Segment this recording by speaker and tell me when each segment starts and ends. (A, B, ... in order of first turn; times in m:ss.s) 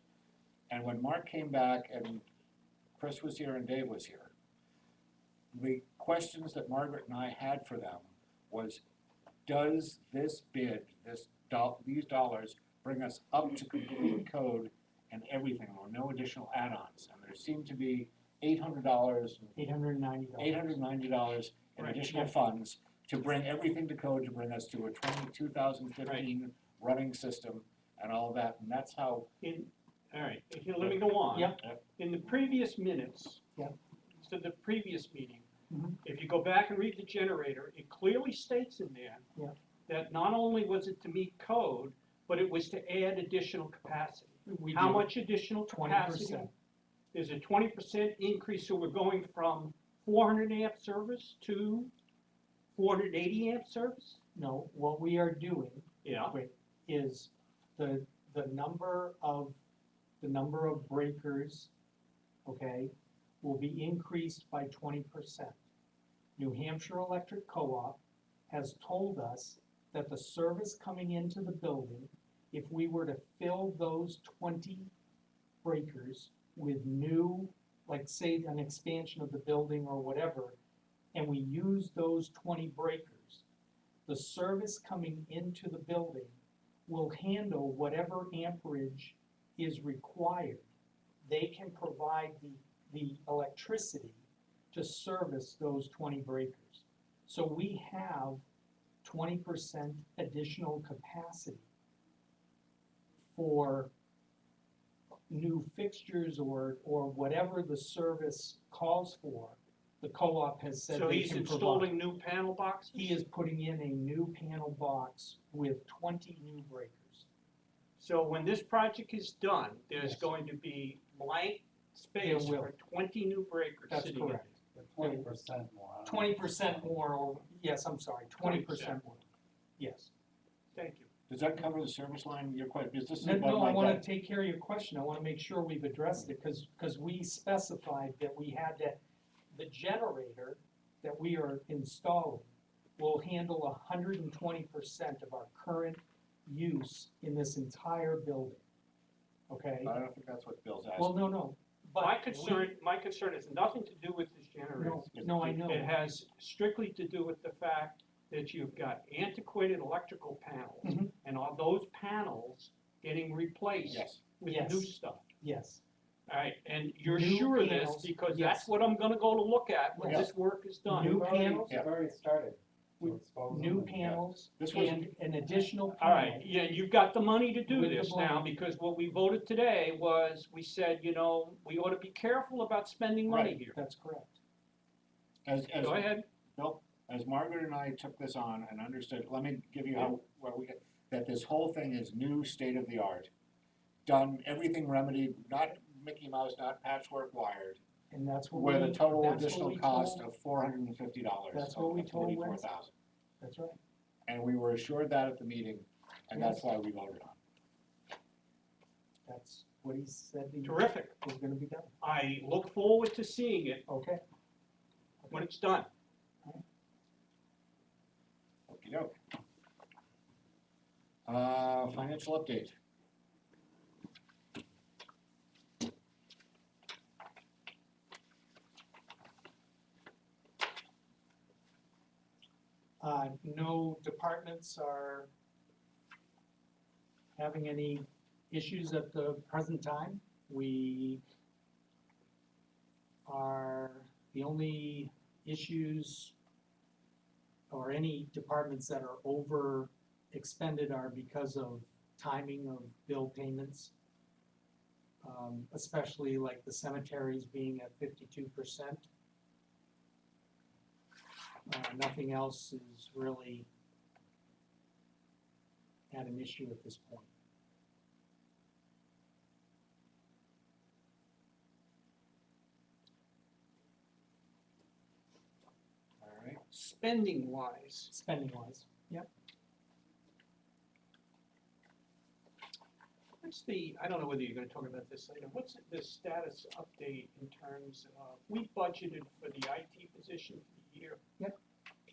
0:00.7-0:02.2 A
0:03.0-0:04.3 A
0:05.5-0:08.8 A
0:09.4-0:19.6 A
0:19.6-0:20.8 B
0:20.4-0:29.3 A
0:29.4-0:33.4 C
0:30.8-0:31.8 A
0:31.3-0:31.6 B
0:34.2-0:35.4 C
0:35.7-0:36.0 B
0:36.0-0:39.2 C
0:39.9-0:46.5 C
0:44.4-0:45.1 B
0:45.7-0:46.5 B
0:47.1-0:51.9 C
0:52.8-0:54.2 C
0:54.3-0:59.6 B
0:56.0-0:56.4 C
1:00.2-1:01.7 B
1:02.4-1:05.6 B
1:06.4-1:14.9 B
1:15.6-1:20.6 B
1:21.1-1:23.4 B
1:24.0-1:30.6 B
1:31.2-1:34.2 B
1:34.7-1:38.4 B
1:39.0-1:41.6 B
1:43.3-1:43.9 B
1:45.3-1:51.9 B
1:50.9-1:53.1 C
1:52.9-1:57.2 B
1:58.0-2:04.5 C
2:00.0-2:00.2 B
2:02.2-2:02.7 B
2:03.9-2:05.3 B
2:04.7-2:07.0 D
2:06.0-2:09.2 B
2:08.4-2:09.0 C
2:09.8-2:10.1 B
2:10.7-2:11.1 C
2:11.3-2:14.0 A
2:13.2-2:19.0 B
2:19.5-2:28.6 B
2:29.5-2:29.9 B
2:29.8-2:31.2 A
2:31.0-2:32.7 B
2:32.0-2:45.2 C
2:34.8-2:35.9 B
2:35.1-2:35.5 A
2:40.8-2:41.1 B
2:43.8-2:44.2 A
2:44.4-2:45.8 B
2:46.3-2:51.2 C
2:47.0-2:48.7 B
2:50.0-2:50.3 B
2:50.8-2:51.8 B
2:50.9-2:54.2 D
2:53.0-2:56.4 B
2:54.0-2:55.1 A
2:55.9-3:03.8 C
2:57.7-2:58.4 B
3:03.3-3:03.6 A
3:03.7-3:04.4 B
3:05.4-3:13.3 A
3:05.8-3:06.2 C
3:14.0-3:17.8 A
3:18.1-3:20.2 B
3:18.5-3:22.9 A
3:21.5-3:22.6 B
3:23.4-3:23.8 B
3:24.3-3:27.4 A
3:26.3-3:26.6 B
3:29.2-3:31.9 B
3:30.6-3:31.2 C
3:32.0-3:33.8 C
3:33.9-3:34.2 B
3:35.2-3:35.5 B
3:35.3-3:35.9 C
3:38.7-3:39.1 A
3:41.2-3:42.7 A
3:53.0-3:55.3 B
3:57.4-4:01.2 B
4:03.2-4:06.3 B
4:07.7-4:13.9 B
4:15.2-4:19.1 B
4:21.7-4:23.7 B
4:26.1-4:27.3 B
4:36.2-4:36.6 A
4:36.7-4:38.1 C
4:38.1-4:39.3 B
4:43.4-4:51.2 C